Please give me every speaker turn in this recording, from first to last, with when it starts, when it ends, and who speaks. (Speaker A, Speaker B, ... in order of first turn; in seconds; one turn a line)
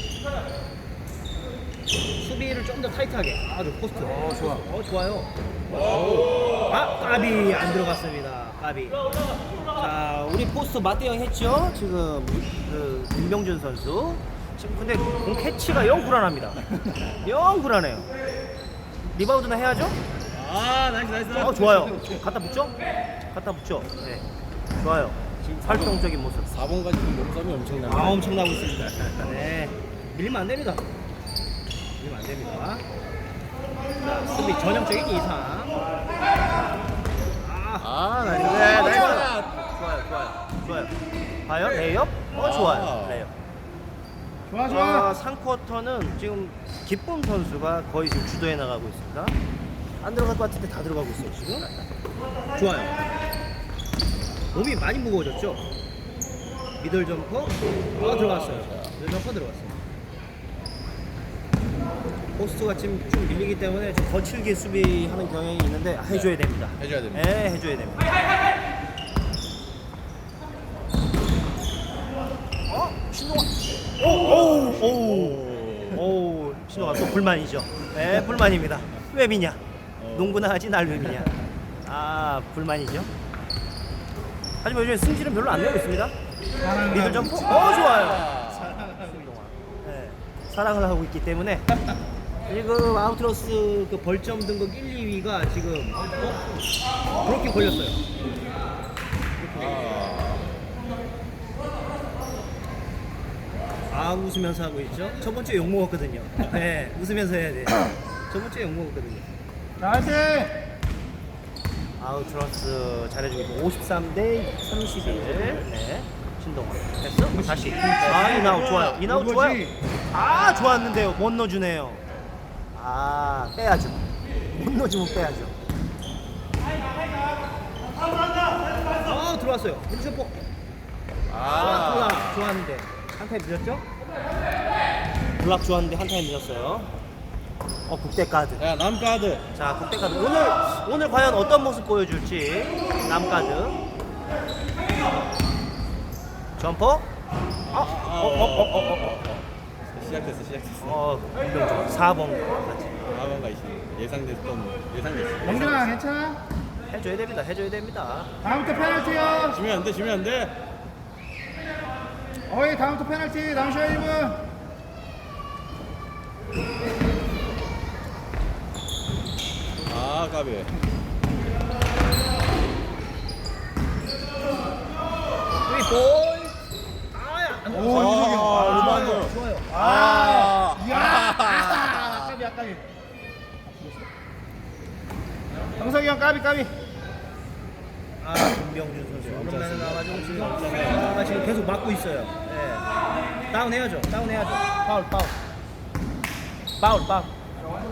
Speaker A: 2.2-9.0
Speaker B: 4.1-4.6
Speaker A: 9.7-18.1
Speaker A: 19.1-20.0
Speaker C: 20.3-22.0
Speaker A: 21.3-24.2
Speaker A: 24.8-26.5
Speaker C: 25.4-28.4
Speaker A: 27.8-30.8
Speaker A: 32.0-32.8
Speaker A: 34.0-35.8
Speaker A: 37.4-40.9
Speaker C: 37.8-39.6
Speaker A: 41.4-43.3
Speaker C: 42.3-43.3
Speaker B: 44.5-45.1
Speaker A: 44.6-49.4
Speaker A: 50.0-51.9
Speaker A: 52.5-53.0
Speaker A: 54.5-55.6
Speaker A: 56.8-59.8
Speaker C: 58.4-58.9
Speaker A: 62.3-68.1
Speaker C: 66.8-67.2
Speaker A: 72.7-75.4
Speaker C: 74.3-76.1
Speaker A: 75.9-83.1
Speaker C: 76.8-77.2
Speaker C: 80.0-80.4
Speaker A: 84.6-86.1
Speaker B: 86.6-87.8
Speaker A: 86.8-91.8
Speaker C: 87.6-88.9
Speaker A: 92.5-96.5
Speaker A: 97.2-98.0
Speaker A: 99.4-100.1
Speaker C: 99.5-100.5
Speaker A: 103.9-109.3
Speaker B: 109.8-110.5
Speaker A: 112.0-122.0
Speaker B: 117.3-119.8
Speaker A: 122.7-125.5
Speaker A: 128.9-130.4
Speaker C: 131.3-132.5
Speaker A: 131.4-133.8
Speaker A: 135.4-136.9
Speaker A: 137.9-138.6
Speaker C: 138.6-139.5
Speaker A: 139.5-143.8
Speaker A: 146.6-147.1
Speaker C: 147.7-151.0
Speaker A: 147.7-149.2
Speaker A: 150.8-153.1
Speaker C: 153.1-156.0
Speaker B: 155.4-156.4
Speaker A: 156.9-158.3
Speaker B: 158.4-159.6
Speaker C: 159.5-160.6
Speaker B: 162.5-164.5
Speaker C: 169.9-170.7
Speaker A: 175.7-176.6
Speaker A: 177.1-180.1
Speaker B: 177.7-182.8
Speaker C: 177.8-182.1
Speaker B: 183.6-184.1
Speaker B: 185.8-186.7
Speaker A: 188.2-192.9
Speaker C: 189.0-191.6
Speaker A: 193.5-195.3
Speaker A: 196.8-197.3